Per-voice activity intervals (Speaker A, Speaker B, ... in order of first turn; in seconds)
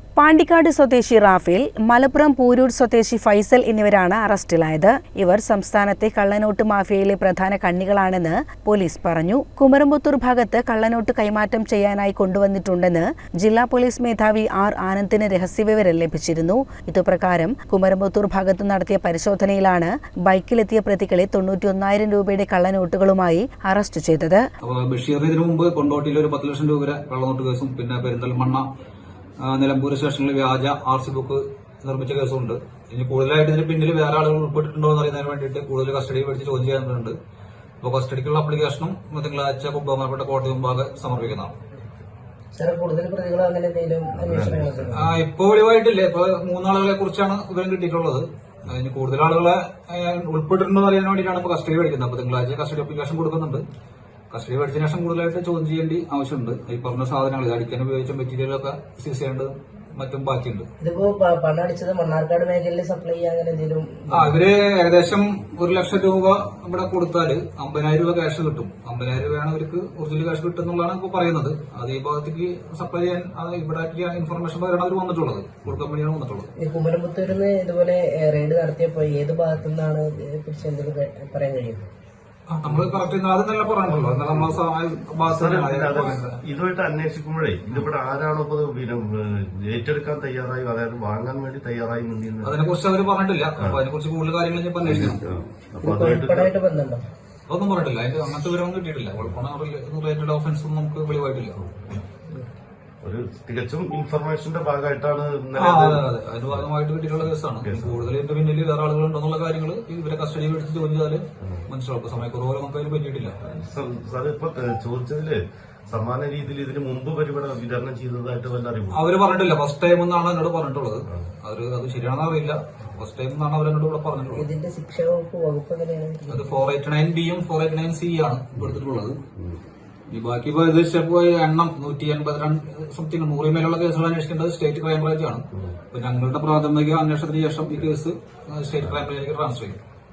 Speaker A: 0.2-24.4
Speaker B: 24.6-28.7, 29.4-37.2, 37.8-41.5, 44.9-53.6, 54.3-60.7, 64.1-76.5, 82.5-86.4, 92.4-95.2, 97.5-101.6, 105.6-113.4, 118.9-124.5, 126.3-129.2, 130.1-139.8
Speaker C: 42.5-44.9, 60.8-64.4, 76.6-81.9, 95.8-97.0, 124.3-126.4
Speaker D: 44.1-45.1, 82.7-83.0, 83.9-84.6, 85.2-92.6, 94.8-96.5, 101.6-102.0, 103.0-106.7, 107.6-108.0, 113.4-119.0